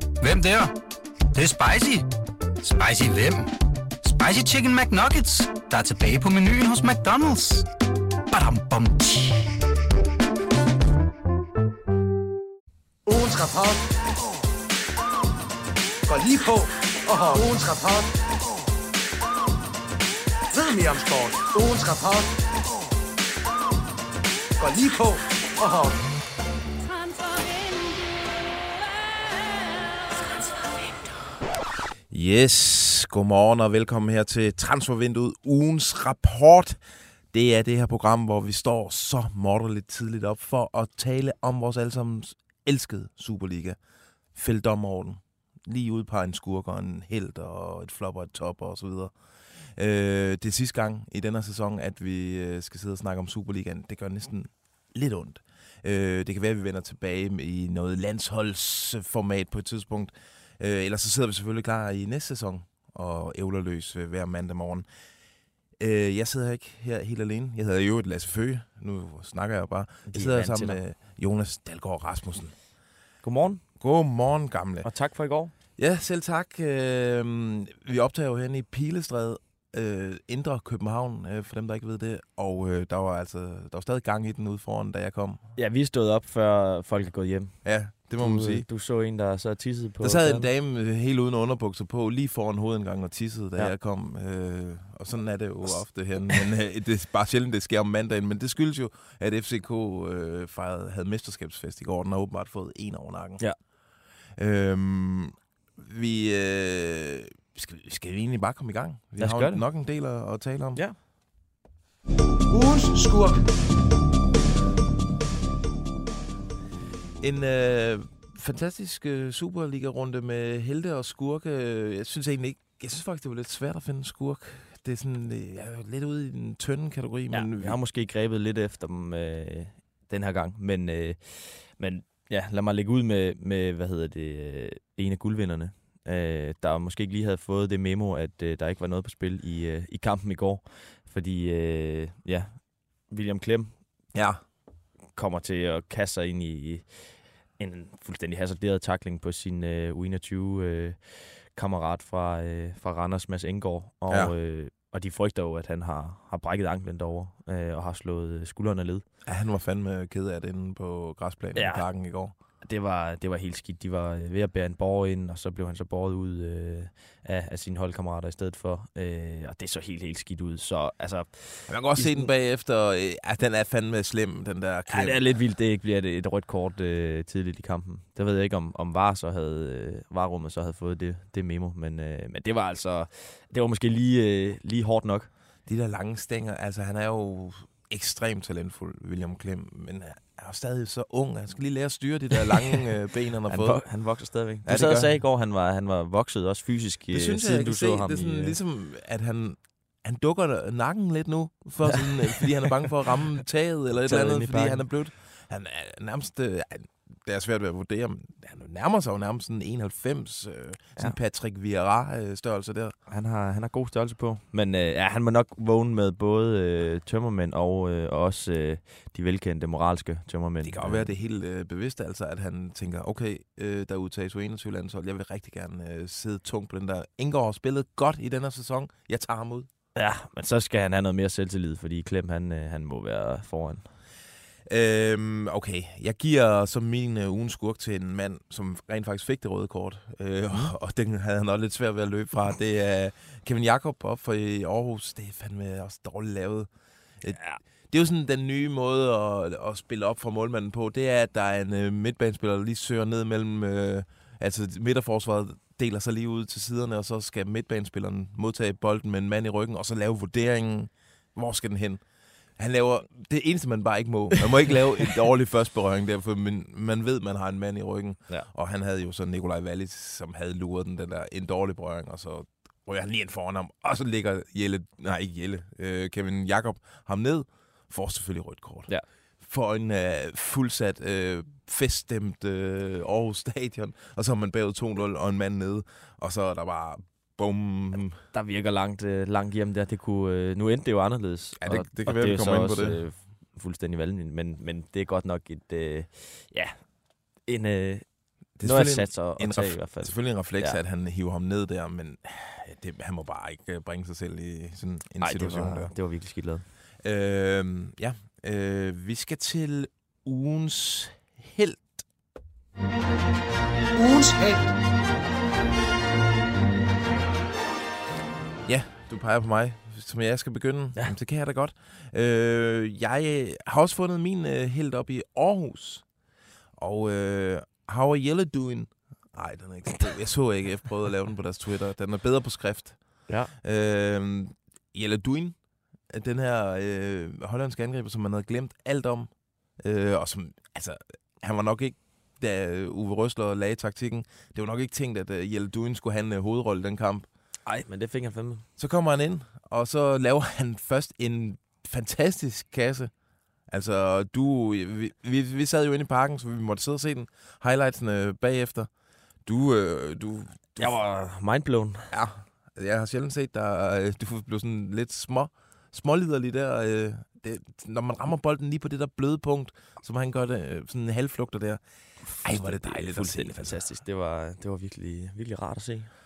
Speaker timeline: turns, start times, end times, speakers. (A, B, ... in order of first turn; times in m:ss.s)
0:00.2-0:00.7 A
0:01.3-0:02.0 A
0:02.6-0:03.5 A
0:04.0-0:07.7 A
0:08.3-0:09.5 A
0:13.1-0:13.9 B
0:16.1-0:18.2 B
0:20.5-0:22.4 B
0:24.6-0:26.0 B
0:32.1-0:43.8 C
0:44.3-1:04.9 C
1:05.8-1:12.6 C
1:10.1-1:10.8 D
1:13.2-1:13.6 D
1:13.8-1:14.9 C
1:14.8-1:15.5 D
1:15.8-1:25.4 C
1:25.6-1:27.6 D
1:27.6-1:28.7 C
1:28.2-1:30.5 D
1:30.0-1:43.4 C
1:44.4-1:50.8 C
1:49.2-1:49.6 D
1:52.5-1:53.5 B
1:57.2-2:07.8 C
2:07.3-2:23.8 D
2:24.1-2:24.4 C
2:25.1-2:39.0 D
2:34.1-2:34.3 C
2:39.3-2:42.3 C
2:41.6-2:41.8 D
2:42.6-2:52.3 D
2:51.7-2:55.2 C
2:54.9-3:05.3 D
3:05.7-3:13.8 C
3:13.5-3:18.6 D
3:14.6-3:15.1 C
3:17.1-3:32.9 C
3:23.9-3:24.9 D
3:33.1-3:41.1 D
3:40.6-3:49.7 C
3:50.0-3:53.9 D
3:54.7-4:06.7 C
4:07.2-4:22.0 C
4:07.3-4:07.6 D
4:22.6-4:38.9 C
4:39.4-4:48.2 C
4:48.3-4:56.9 D
4:51.6-4:53.0 C
4:57.4-4:58.1 D
4:58.6-5:05.9 C
4:58.6-5:00.8 D
5:05.2-5:06.7 D
5:07.0-5:12.0 C
5:14.0-5:14.6 B
5:18.7-5:26.1 C
5:26.8-5:35.6 C
5:33.3-5:33.5 D
5:36.1-5:47.3 C
5:47.7-5:48.7 D
5:48.8-5:53.1 C
5:53.7-5:58.9 C
5:59.5-6:01.0 C
6:00.8-6:02.1 D
6:02.1-6:11.8 C
6:12.2-6:16.1 D
6:12.4-6:13.8 C